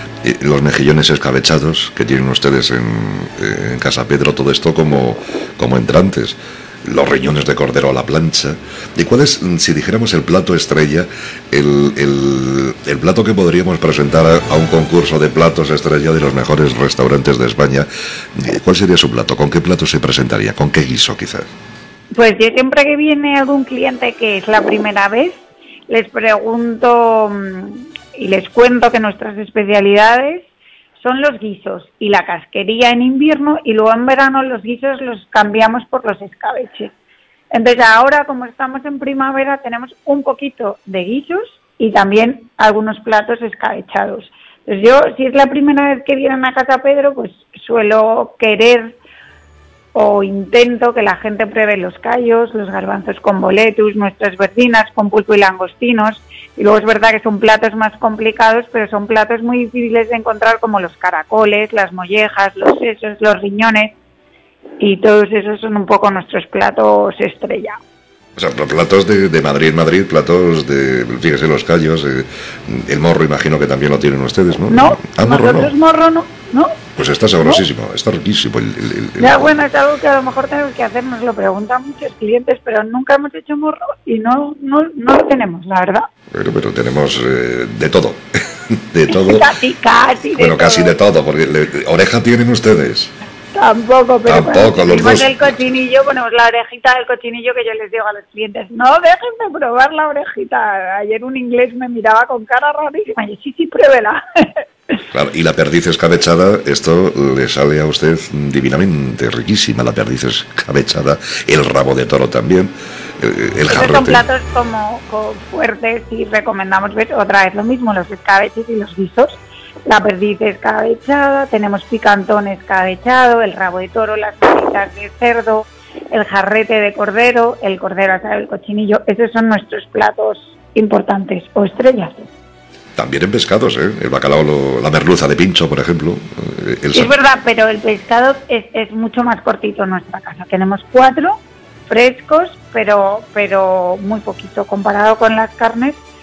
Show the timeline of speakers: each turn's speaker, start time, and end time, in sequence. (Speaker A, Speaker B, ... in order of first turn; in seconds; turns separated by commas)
Speaker A: 0.2-21.5, Speaker B: 22.1-36.9, Speaker B: 37.5-49.0, Speaker B: 49.9-64.0, Speaker B: 64.8-67.8, Speaker A: 68.3-75.7, Speaker B: 74.7-76.8, Speaker A: 77.0-79.6, Speaker B: 79.2-86.1, Speaker A: 86.3-89.5, Speaker B: 89.1-91.0, Speaker A: 90.3-93.1, Speaker B: 93.5-104.6, Speaker A: 94.2-95.6, Speaker A: 105.1-114.2, Speaker B: 113.7-132.3, Speaker A: 132.9-137.1, Speaker B: 136.9-146.0